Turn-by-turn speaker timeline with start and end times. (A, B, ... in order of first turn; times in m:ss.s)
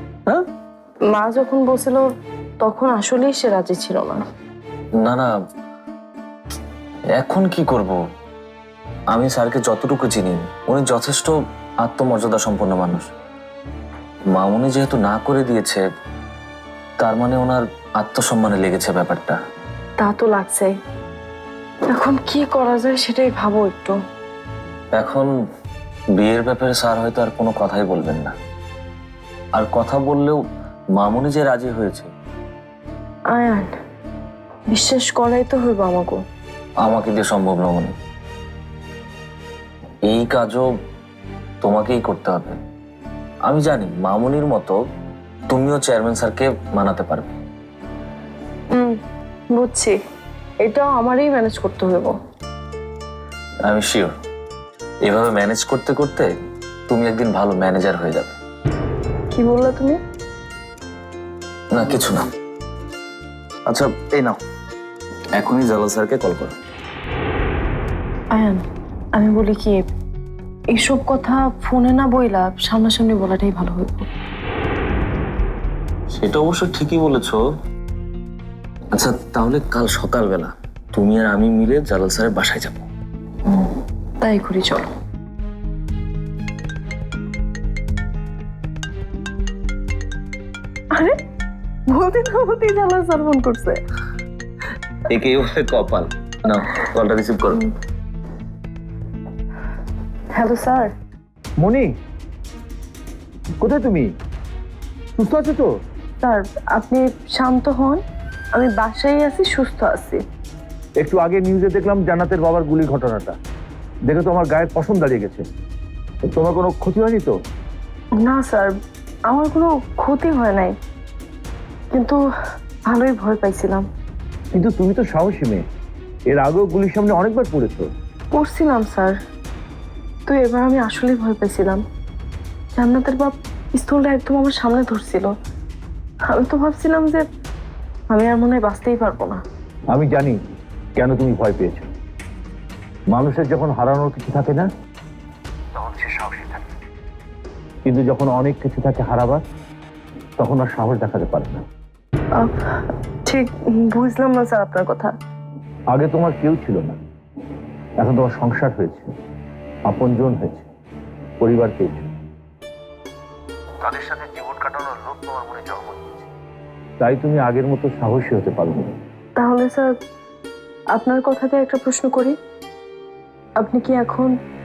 0:01.1-0:02.1 A
0:02.6-0:04.2 A
0:05.0-0:05.3 B
0:07.2-0:08.0 B
0:09.1-0:11.3 B
0:11.8-0:13.1 B
0:14.3-0:15.8 B
0:17.0-0:19.4 B
0:20.0-0:20.7 A
0:21.9-0:24.0 A
0:25.0-0:25.3 B
0:26.2-0:28.3 B
0:29.6-0:30.4 B
0:31.0-0:32.1 B
0:33.3-0:33.7 A
0:34.7-0:36.2 A
0:36.8-0:37.9 B
0:40.1-0:40.7 B
0:41.6-0:42.6 B
0:43.5-0:44.7 B
0:45.5-0:47.4 B
0:49.5-0:50.0 A
0:50.6-0:52.2 A
0:53.7-0:54.1 B
0:55.0-0:56.3 B
0:56.9-0:58.4 B
0:59.3-1:00.0 A
1:01.7-1:02.2 B
1:03.7-1:04.4 B
1:05.4-1:06.5 B
1:08.3-1:08.6 A
1:09.2-1:09.9 A
1:10.7-1:14.1 A
1:16.1-1:17.4 B
1:19.0-1:22.8 B
1:23.5-1:24.8 A
1:31.9-1:33.8 A
1:35.1-1:37.6 B
1:40.3-1:40.9 A
1:41.6-1:41.9 C
1:43.6-1:44.1 C
1:45.2-1:45.7 C
1:46.2-1:48.0 A
1:48.5-1:50.2 A
1:51.0-1:53.4 C
1:54.1-1:55.4 C
1:56.3-1:57.3 C
1:58.2-1:58.7 A
1:59.3-2:00.8 A
2:01.9-2:02.2 A
2:02.9-2:03.9 A
2:04.5-2:05.6 C
2:06.3-2:07.9 C
2:08.3-2:09.2 A
2:10.3-2:11.8 A
2:12.7-2:15.3 A
2:16.3-2:17.2 A
2:18.1-2:19.4 A
2:19.9-2:20.4 C
2:21.0-2:21.9 C
2:23.1-2:24.7 C
2:25.8-2:26.6 C
2:27.8-2:29.4 C
2:30.4-2:31.6 C
2:32.4-2:35.1 A
2:35.9-2:37.0 C
2:38.0-2:39.1 C
2:39.9-2:40.7 C
2:41.4-2:42.1 C
2:43.8-2:46.3 C
2:47.0-2:49.0 C
2:49.4-2:49.9 A
2:50.9-2:52.4 A
2:53.6-2:54.3 A